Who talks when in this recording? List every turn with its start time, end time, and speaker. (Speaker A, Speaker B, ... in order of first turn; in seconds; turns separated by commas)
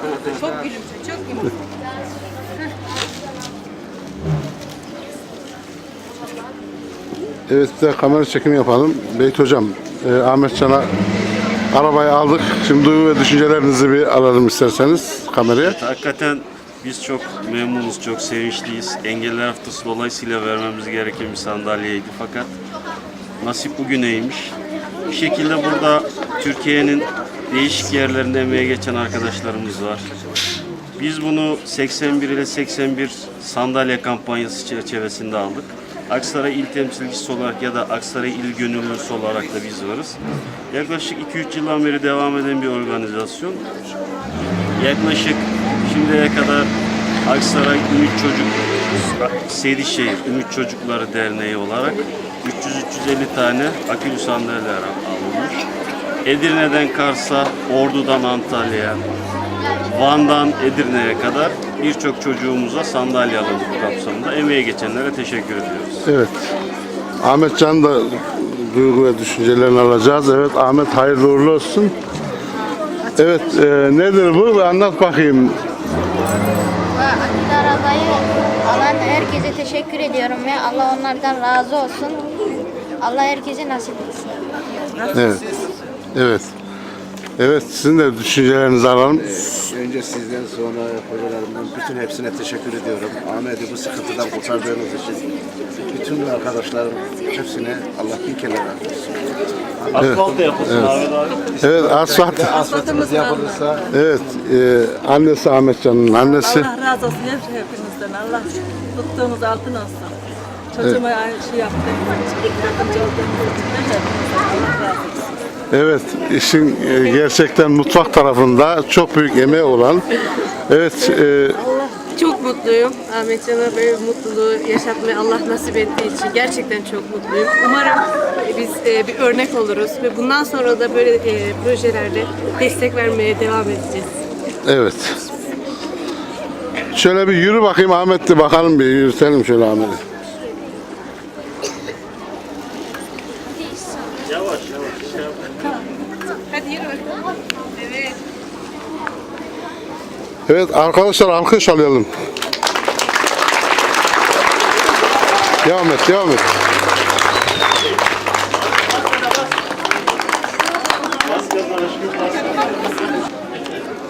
Speaker A: 0.3-1.5, Speaker B: 7.5-10.9, Speaker B: 11.7-15.8, Speaker C: 15.6-22.5, Speaker C: 23.4-30.1, Speaker C: 31.0-40.2, Speaker C: 40.7-43.7, Speaker C: 44.8-46.7, Speaker C: 47.2-55.6, Speaker C: 56.2-59.0, Speaker C: 59.9-66.1, Speaker B: 66.1-66.5, Speaker B: 67.2-71.9, Speaker B: 73.2-75.6, Speaker D: 77.0-82.3, Speaker D: 83.0-84.4, Speaker B: 85.1-85.5, Speaker B: 86.1-86.5, Speaker B: 87.4-89.4, Speaker E: 89.2-95.3, Speaker E: 95.9-99.4, Speaker C: 99.9-101.6, Speaker B: 100.0-101.1, Speaker B: 101.6-102.6, Speaker E: 101.6-103.9, Speaker F: 102.6-103.8, Speaker B: 103.9-106.7, Speaker F: 106.3-110.2, Speaker F: 110.7-115.2, Speaker B: 115.7-121.7, Speaker A: 121.7-134.1, Speaker B: 134.6-135.2, Speaker B: 136.9-140.0, Speaker C: 144.3-145.6, Speaker A: 146.5-147.2, Speaker A: 147.8-148.2, Speaker B: 150.5-152.1, Speaker B: 155.6-156.5, Speaker C: 161.2-162.7